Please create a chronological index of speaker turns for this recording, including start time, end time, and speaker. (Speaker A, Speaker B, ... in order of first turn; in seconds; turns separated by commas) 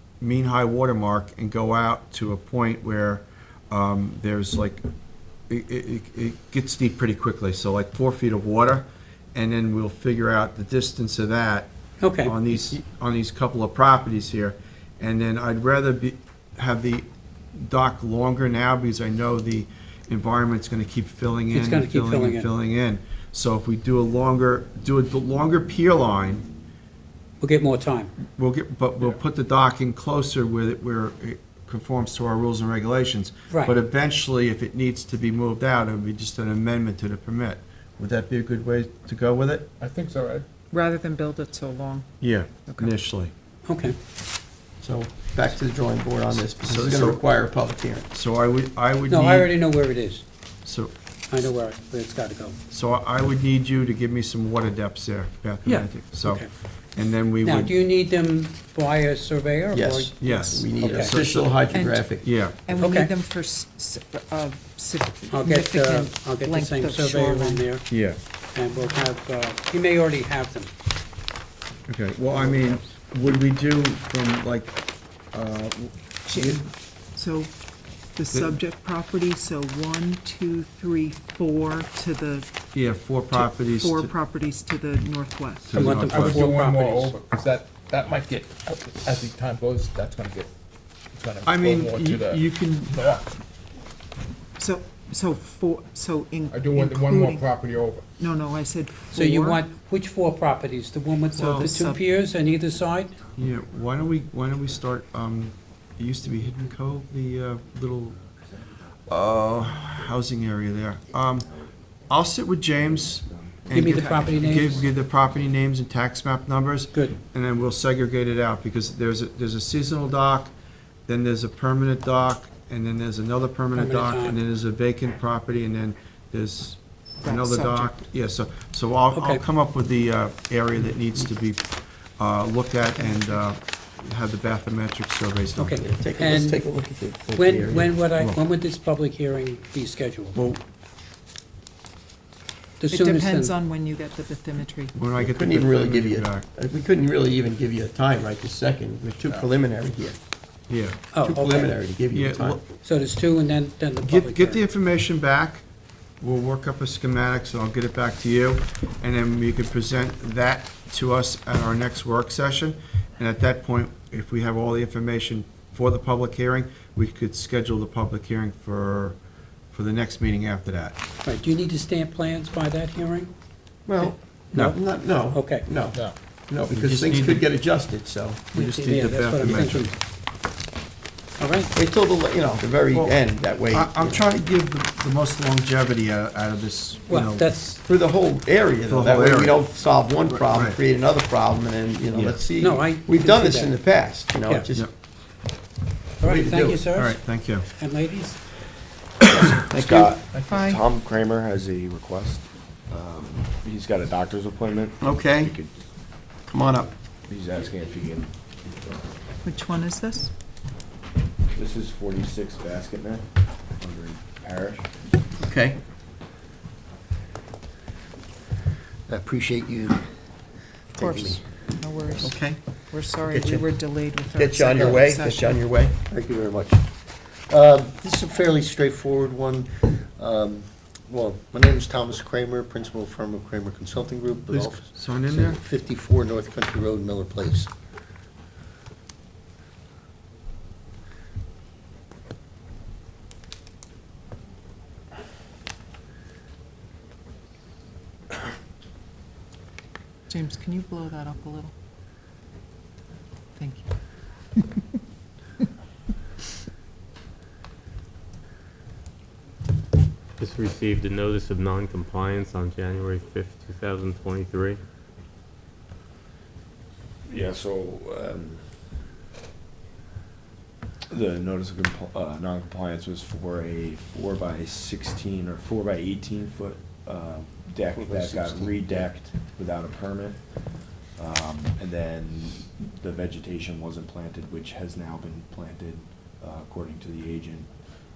Speaker A: 0.2-4.8, Speaker A: 5.5-11.7, Speaker B: 12.0-12.3, Speaker A: 12.2-26.5, Speaker B: 21.5-22.5, Speaker B: 27.4-28.1, Speaker A: 28.4-39.7, Speaker C: 39.8-40.5, Speaker D: 40.7-42.9, Speaker A: 42.2-43.3, Speaker B: 43.7-44.0, Speaker E: 44.8-48.1, Speaker A: 46.6-47.2, Speaker A: 48.1-49.5, Speaker B: 49.1-50.2, Speaker A: 50.7-50.9, Speaker B: 51.3-52.6, Speaker A: 52.7-56.4, Speaker B: 56.2-56.5, Speaker A: 57.0-57.7, Speaker B: 57.4-61.2, Speaker E: 59.7-62.3, Speaker A: 60.2-61.5, Speaker D: 60.3-60.7, Speaker D: 61.6-67.7, Speaker A: 62.2-62.7, Speaker B: 62.8-63.1, Speaker B: 65.3-67.9, Speaker A: 67.9-68.2, Speaker B: 68.5-70.7, Speaker A: 71.9-74.8, Speaker A: 75.3-76.6, Speaker D: 76.3-77.5, Speaker D: 78.2-82.5, Speaker A: 78.3-78.6, Speaker A: 82.7-84.1, Speaker D: 83.3-85.8, Speaker A: 85.7-86.5, Speaker B: 85.7-87.1, Speaker C: 85.9-90.5, Speaker C: 91.1-93.4, Speaker A: 91.5-93.1, Speaker D: 94.6-97.5, Speaker C: 96.5-98.1, Speaker D: 98.2-99.6, Speaker B: 99.1-103.2, Speaker D: 101.3-102.0, Speaker A: 101.4-101.7, Speaker A: 103.4-108.2, Speaker A: 109.1-111.5, Speaker A: 112.1-120.5, Speaker F: 113.3-113.6, Speaker B: 113.7-114.8, Speaker A: 121.1-131.6, Speaker B: 123.7-124.4, Speaker D: 127.2-128.1, Speaker B: 129.1-129.4, Speaker A: 132.2-135.8, Speaker B: 135.6-136.7, Speaker E: 135.8-138.0, Speaker B: 137.3-140.4, Speaker A: 140.3-140.6, Speaker B: 142.8-143.5, Speaker D: 142.9-145.1, Speaker A: 144.9-146.4, Speaker E: 145.2-150.2, Speaker A: 150.7-151.0, Speaker B: 151.1-151.8, Speaker E: 151.2-152.6, Speaker A: 152.1-152.6, Speaker B: 152.8-154.6, Speaker A: 154.0-155.7, Speaker A: 156.2-169.2, Speaker A: 169.7-171.0, Speaker B: 171.2-173.3, Speaker E: 173.9-178.4, Speaker B: 174.0-175.7, Speaker A: 176.7-177.5, Speaker A: 178.5-179.9, Speaker B: 178.5-180.0, Speaker B: 181.4-181.7, Speaker E: 181.8-184.2, Speaker A: 183.7-187.4, Speaker B: 187.1-187.8, Speaker E: 187.8-194.9, Speaker A: 188.9-189.6, Speaker A: 190.5-190.8, Speaker B: 192.5-193.8, Speaker B: 194.4-194.7, Speaker B: 196.2-198.4, Speaker E: 196.2-196.8, Speaker A: 196.9-197.7, Speaker E: 199.3-200.2, Speaker F: 199.5-205.7, Speaker C: 200.3-200.6, Speaker D: 200.5-200.8, Speaker E: 205.0-205.6, Speaker E: 206.5-206.9, Speaker F: 207.3-209.1, Speaker D: 209.4-210.3, Speaker F: 211.5-214.9, Speaker E: 215.4-215.8, Speaker G: 219.1-220.1, Speaker G: 220.9-221.4, Speaker D: 221.0-225.7, Speaker E: 222.2-223.7, Speaker E: 224.2-226.0, Speaker G: 224.7-225.2, Speaker G: 226.0-237.7, Speaker A: 234.5-235.6, Speaker D: 250.3-251.7, Speaker D: 253.6-253.9, Speaker H: 260.4-264.8, Speaker F: 267.3-268.7, Speaker F: 271.1-280.6, Speaker G: 278.0-278.8, Speaker F: 281.1-287.7